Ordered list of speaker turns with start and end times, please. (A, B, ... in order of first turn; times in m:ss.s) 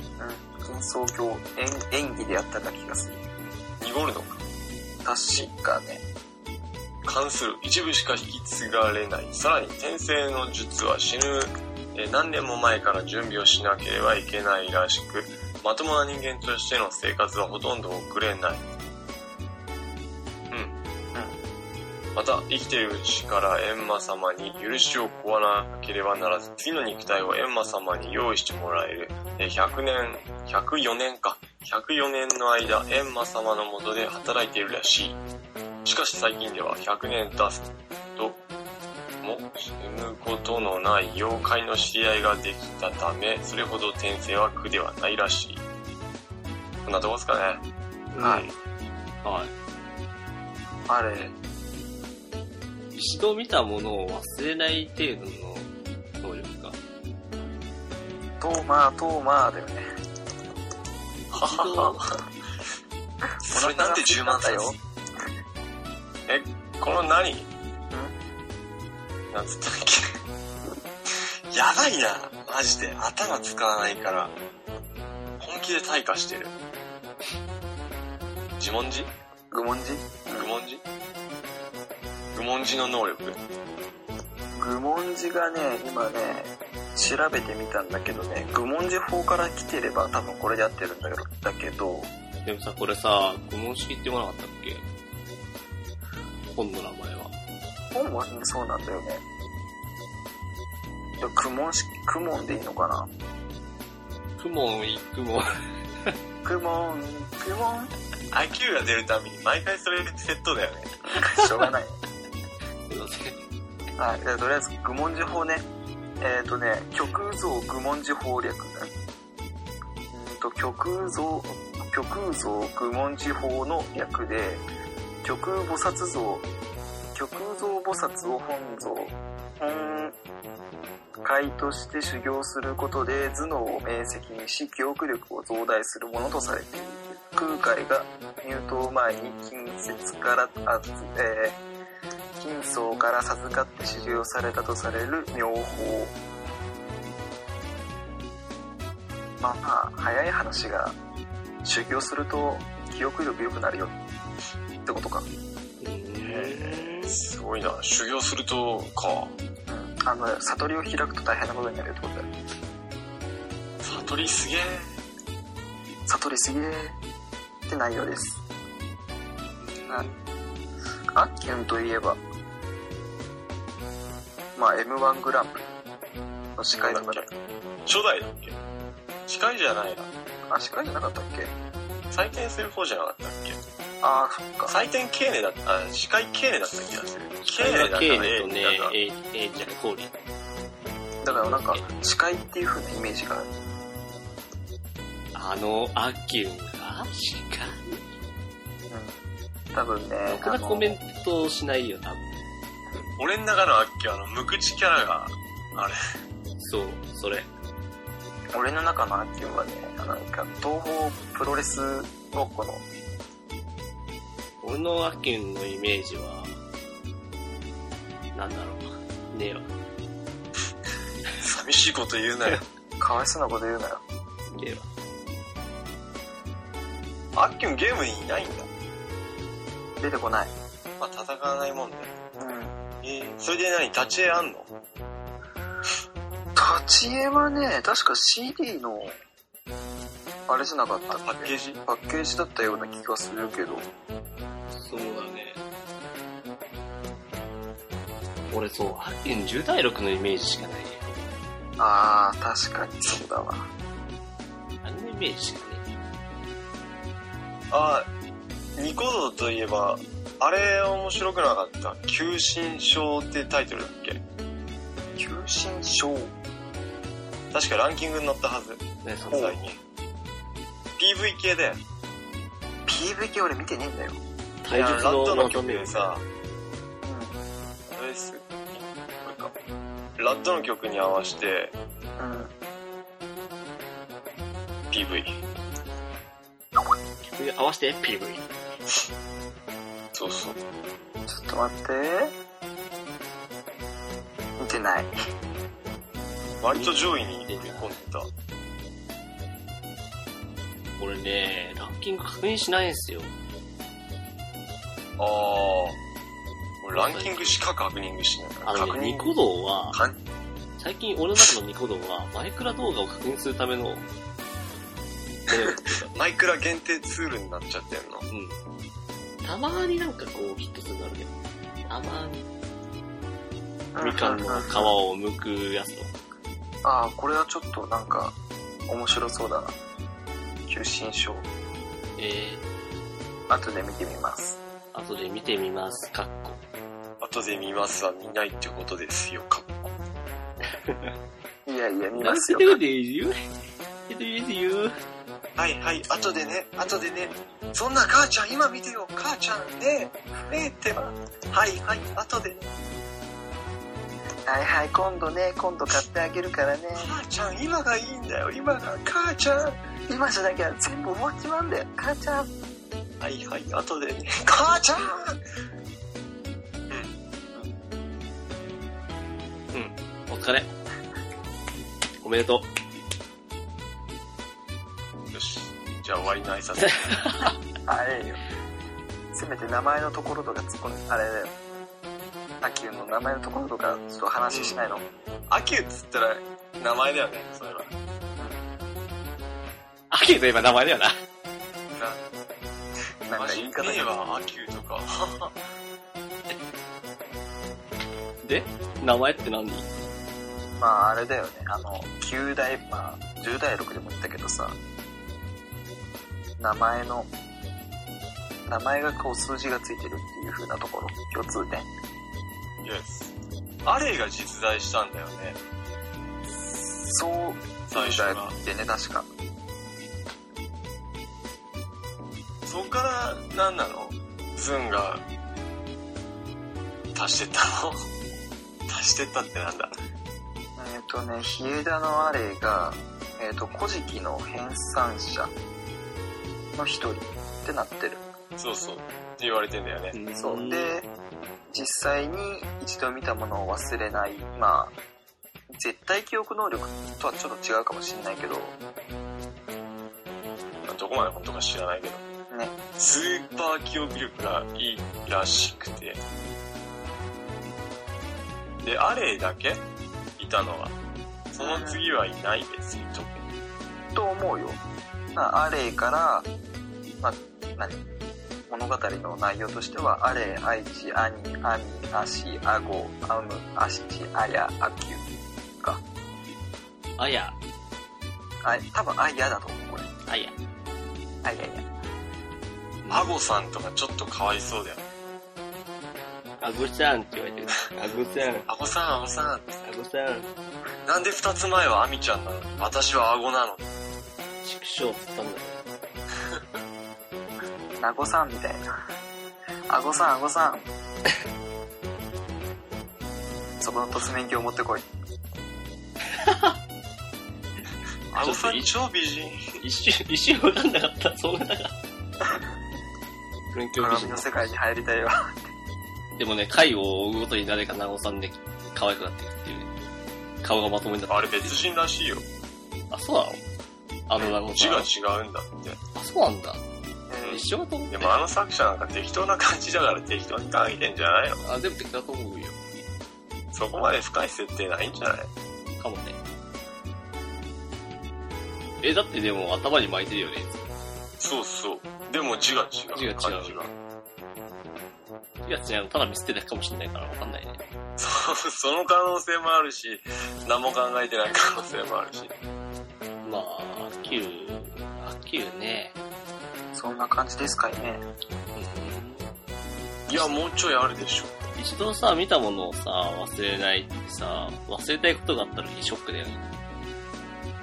0:00.2-0:03.2 A
0:03.8-0:04.4 B
0:05.0-0:06.0 A
0:07.0-0:18.7 B
0:22.2-0:35.2 B
0:35.8-0:38.4 B
0:39.2-0:45.6 B
0:46.8-0:47.6 B
0:48.1-0:48.5 C
0:48.2-0:48.5 A
0:49.2-0:49.5 C
0:50.9-0:51.3 A
0:52.9-0:55.7 C
0:56.2-0:56.8 C
0:58.4-0:59.9 A
1:01.3-1:02.0 B
1:01.4-1:02.0 C
1:03.4-1:04.8 B
1:03.5-1:04.8 A
1:06.3-1:07.5 B
1:09.3-1:10.1 B
1:11.5-1:14.3 B
1:15.4-1:16.5 B
1:18.6-1:19.1 B
1:19.5-1:20.5 A
1:20.3-1:20.8 B
1:22.3-1:23.4 B
1:24.6-1:32.1 A
1:32.4-1:34.9 C
1:36.5-1:37.3 C
1:37.9-1:39.2 A
1:41.2-1:43.1 A
1:44.4-1:45.4 C
1:46.4-1:47.9 A
1:48.3-1:50.9 B
1:51.1-1:52.0 A
1:52.9-1:53.4 C
1:54.0-1:55.7 A
1:56.2-1:58.9 A
2:00.1-2:04.6 A
2:05.2-2:06.5 A
2:07.2-2:10.2 A
2:11.2-2:21.6 A
2:22.4-2:26.2 A
2:29.4-2:31.0 A
2:31.6-2:34.0 A
2:34.8-2:35.3 A
2:35.8-2:37.2 C
2:36.3-2:39.4 B
2:39.7-2:42.3 A
2:43.8-2:44.8 B
2:46.1-2:47.0 A
2:47.7-2:48.4 A
2:49.6-2:50.2 B
2:51.2-2:52.2 A
2:54.6-2:55.7 A
2:56.6-2:57.3 A
2:56.8-2:57.3 B
2:57.9-2:58.6 B
2:59.3-3:00.1 B
3:00.5-3:01.5 A
3:02.1-3:03.6 B
3:04.0-3:04.8 A
3:04.7-3:09.0 B
3:07.4-3:10.1 C
3:11.2-3:13.5 A
3:11.3-3:11.9 C
3:15.4-3:18.0 C
3:18.9-3:19.2 A
3:19.7-3:21.0 A
3:20.3-3:22.2 C
3:23.2-3:26.0 B
3:26.6-3:27.5 C
3:28.5-3:32.8 A
3:34.6-3:36.5 C
3:38.4-3:39.7 C
3:41.4-3:42.6 B
3:43.0-3:44.0 A
3:44.5-3:44.9 C
3:47.4-3:48.7 B
3:50.0-3:50.5 A
3:51.0-3:52.1 B
3:52.4-3:52.8 A
3:53.0-3:54.7 B
3:56.6-3:59.2 A
4:00.5-4:03.9 A
4:01.1-4:01.8 B
4:04.7-4:05.6 C
4:08.5-4:11.3 C
4:11.8-4:13.7 A
4:14.8-4:15.8 C
4:17.7-4:18.1 B
4:18.8-4:24.2 B
4:25.2-4:26.3 A
4:27.5-4:29.8 B
4:29.0-4:29.6 C
4:31.0-4:31.8 B
4:32.9-4:34.2 A
4:34.6-4:36.0 C
4:34.7-4:36.2 B
4:37.1-4:37.4 A
4:37.9-4:39.5 B
4:40.2-4:41.8 B
4:42.2-4:42.5 A
4:44.9-4:45.4 B
4:47.3-4:48.5 C
4:50.1-4:50.6 B
4:51.3-4:52.3 A
4:54.6-4:55.1 A
4:56.6-4:58.3 B
4:57.5-4:58.0 C
5:01.0-5:03.3 C
5:05.2-5:06.0 B
5:06.8-5:09.4 B
5:06.9-5:07.6 C
5:08.6-5:10.0 C
5:10.8-5:14.1 C
5:15.5-5:16.1 C
5:16.1-5:18.3 B
5:18.3-5:18.6 C
5:19.4-5:21.3 C
5:21.9-5:22.4 C
5:23.9-5:24.9 A
5:24.0-5:26.1 C
5:26.8-5:28.4 A
5:28.9-5:29.8 A
5:30.7-5:31.5 A
5:32.2-5:32.6 C
5:33.5-5:34.6 A
5:34.9-5:36.6 C
5:37.2-5:39.9 B
5:40.8-5:41.1 C
5:41.7-5:42.8 A
5:42.2-5:43.4 C
5:44.1-5:44.9 C
5:45.6-5:52.7 B
5:54.5-5:57.1 A
5:57.0-5:59.8 B
6:00.1-6:02.5 A
6:03.2-6:05.3 B
6:09.7-6:10.7 C
6:12.2-6:12.7 C
6:15.3-6:17.5 B
6:17.0-6:17.5 C
6:17.9-6:18.4 A
6:19.3-6:21.5 A
6:22.6-6:25.0 A
6:24.5-6:24.8 B
6:25.5-6:27.9 B
6:30.1-6:31.2 C
6:33.3-6:34.1 A
6:33.4-6:35.6 B
6:38.4-6:39.9 C
6:40.8-6:44.8 A
6:46.6-6:47.3 A
6:48.7-6:51.9 A
6:52.8-6:53.3 B
6:53.8-6:55.6 B
6:57.0-6:59.3 A
6:57.9-6:58.5 B
7:02.7-7:05.2 B
7:07.1-7:08.1 B
7:08.9-7:09.9 B
7:10.8-7:15.5 A
7:16.8-7:18.2 A
7:18.6-7:20.2 B
7:20.1-7:21.0 C
7:20.4-7:21.1 A
7:21.7-7:25.0 A
7:25.7-7:28.8 A
7:30.8-7:32.2 B
7:32.5-7:32.8 A
7:33.0-7:36.2 B
7:38.8-7:39.8 B
7:40.4-7:41.0 B
7:41.5-7:43.4 B
7:41.6-7:42.0 A
7:44.1-7:44.8 A
7:45.4-7:46.5 A
7:47.2-7:48.0 A
7:48.7-7:55.2 A
7:57.2-7:57.6 C
7:58.6-8:00.1 A
8:00.3-8:00.6 C
8:01.4-8:01.9 A
8:03.0-8:03.3 C
8:03.1-8:05.0 B
8:06.6-8:08.7 C
8:08.7-8:09.8 B
8:09.8-8:10.5 C
8:11.1-8:13.9 B
8:14.6-8:15.8 C
8:18.0-8:18.9 A
8:19.9-8:20.9 A
8:23.8-8:25.1 A
8:26.4-8:26.8 C
8:28.3-8:29.7 B
8:28.4-8:28.9 C
8:29.8-8:31.9 C
8:33.7-8:34.8 C
8:34.0-8:35.7 A
8:36.4-8:39.9 C
8:40.6-8:41.8 C
8:41.3-8:42.5 B
8:43.1-8:43.6 C
8:44.3-8:45.1 C
8:44.4-8:46.0 B
8:46.2-8:46.8 C
8:47.3-8:47.7 A
8:47.4-8:48.4 C
8:48.1-8:51.6 B
8:51.6-8:52.8 C
8:53.7-8:55.5 B
8:56.0-8:56.4 C
8:59.0-9:00.8 C
9:01.4-9:03.9 B
9:03.1-9:03.9 C
9:05.6-9:07.8 C
9:08.2-9:12.5 B
9:13.4-9:16.2 C
9:16.9-9:18.2 A
9:18.8-9:19.5 C
9:20.3-9:21.6 B
9:21.8-9:26.6 C